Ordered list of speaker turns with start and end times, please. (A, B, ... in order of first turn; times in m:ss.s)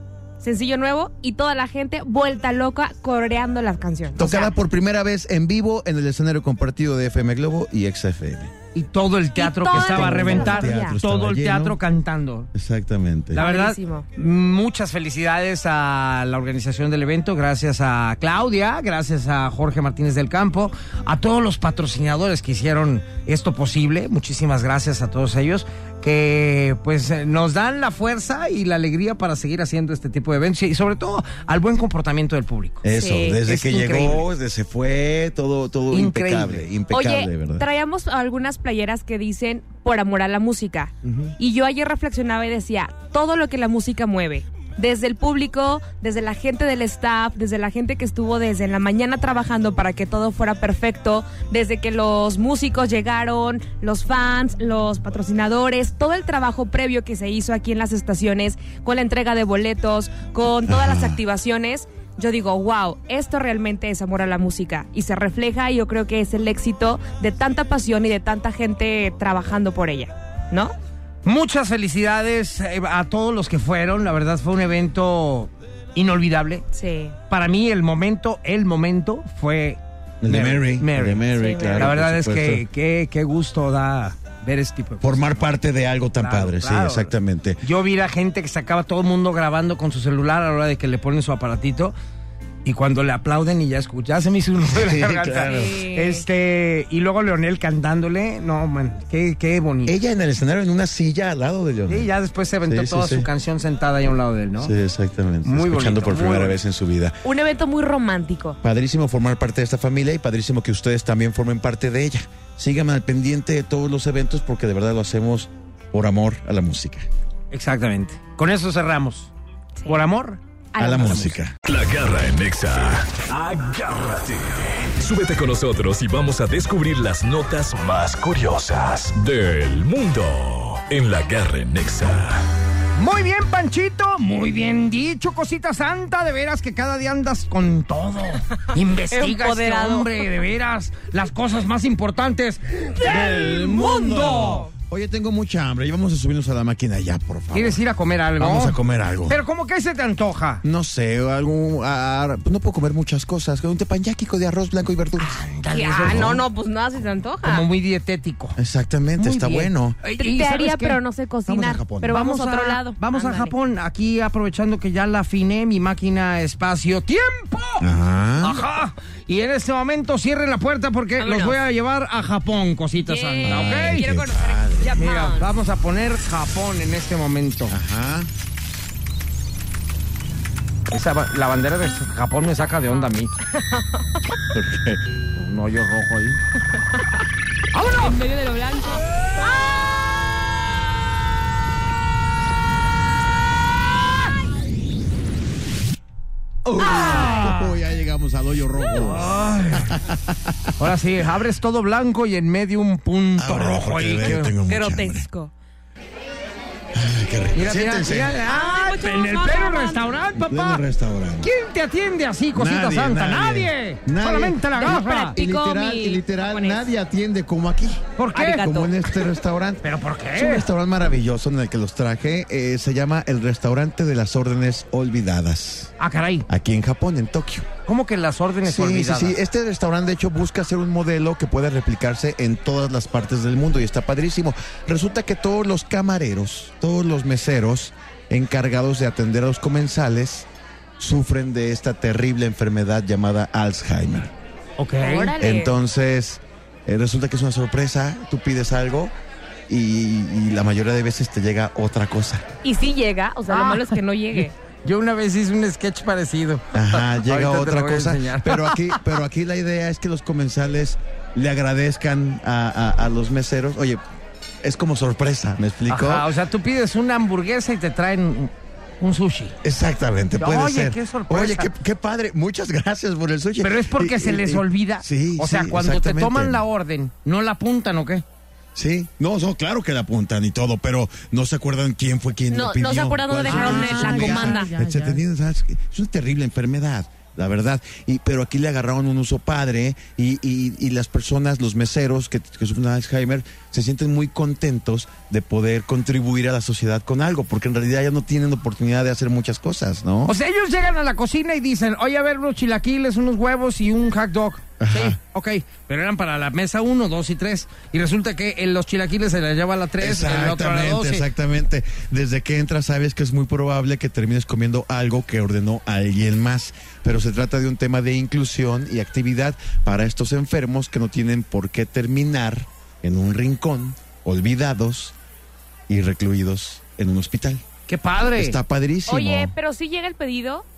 0:00.4-0:04.5 A
0:04.2-0:08.5 B
0:08.7-0:12.5 C
0:09.4-0:11.0 A
0:09.7-0:11.8 B
0:12.5-0:13.4 B
0:13.3-0:32.8 C
0:13.4-0:14.1 A
0:32.8-0:37.7 B
0:33.0-0:33.4 A
0:33.4-0:34.3 C
0:35.9-0:36.7 C
0:36.9-1:10.7 A
0:41.0-0:41.3 C
1:00.7-1:01.2 B
1:11.2-1:16.6 C
1:16.7-1:17.2 A
1:17.3-1:25.5 C
1:20.2-1:22.6 B
1:21.3-1:21.9 A
1:25.0-1:27.6 B
1:26.2-1:32.0 C
1:32.6-1:40.0 C
1:34.7-1:35.8 B
1:35.4-1:36.2 A
1:39.9-1:42.1 B
1:41.9-1:44.7 C
1:42.6-1:43.3 B
1:44.6-1:47.2 B
1:45.4-1:46.6 C
1:47.2-1:48.6 A
1:48.6-1:57.1 B
1:57.5-1:59.3 C
1:59.9-2:00.4 C
2:00.8-2:01.4 A
2:00.8-2:01.6 B
2:01.6-2:12.4 D
2:13.0-2:24.7 C
2:19.1-2:20.4 A
2:23.0-2:27.8 B
2:27.5-2:30.6 C
2:28.4-2:29.4 B
2:30.6-2:35.5 B
2:35.2-2:36.4 C
2:35.7-2:37.7 A
2:36.0-2:36.4 B
2:37.4-2:38.6 C
2:38.6-2:40.0 B
2:39.2-2:41.0 C
2:40.1-2:43.5 A
2:41.5-2:42.2 B
2:42.1-2:47.9 C
2:47.8-2:48.6 B
2:48.4-2:54.1 C
2:51.2-2:51.6 A
2:53.0-2:55.5 A
2:53.4-2:55.1 B
2:55.0-2:57.8 C
2:57.7-2:58.3 B
3:00.9-3:03.3 C
3:03.5-3:04.0 A
3:04.5-3:05.0 B
3:05.4-3:06.4 C
3:07.7-3:08.2 C
3:08.0-3:09.4 A
3:16.6-3:20.7 B
3:16.8-3:17.8 C
3:19.0-3:19.9 C
3:20.8-3:24.6 C
3:23.4-3:25.3 B
3:24.6-3:25.5 A
3:26.9-3:28.4 B
3:27.6-3:30.8 C
3:28.4-3:30.0 A
3:30.4-3:31.5 B
3:31.4-3:35.4 C
3:32.6-3:45.9 B
3:34.7-3:36.8 A
3:38.2-3:38.9 C
3:38.4-3:38.9 A
3:39.8-3:40.7 C
3:46.0-3:46.5 C
3:46.5-3:47.7 B
3:47.9-3:49.4 C
3:48.6-4:00.5 B
4:01.0-4:04.3 B
4:04.8-4:05.3 C
4:05.0-4:05.7 A
4:05.4-4:09.1 B
4:09.7-4:12.5 B
4:12.6-4:14.5 A
4:13.5-4:19.0 C
4:16.7-4:24.0 B
4:24.6-4:26.3 B
4:25.9-4:29.6 C
4:29.6-4:36.6 B
4:30.4-4:31.7 C
4:33.6-4:38.2 C
4:38.8-5:00.3 B
4:42.5-4:44.8 A
4:43.5-4:45.2 C
5:00.3-5:11.3 C
5:04.8-5:05.2 B
5:10.0-5:25.2 B
5:25.9-5:27.6 B
5:27.9-5:28.6 C
5:28.4-5:29.5 B
5:29.1-5:30.7 A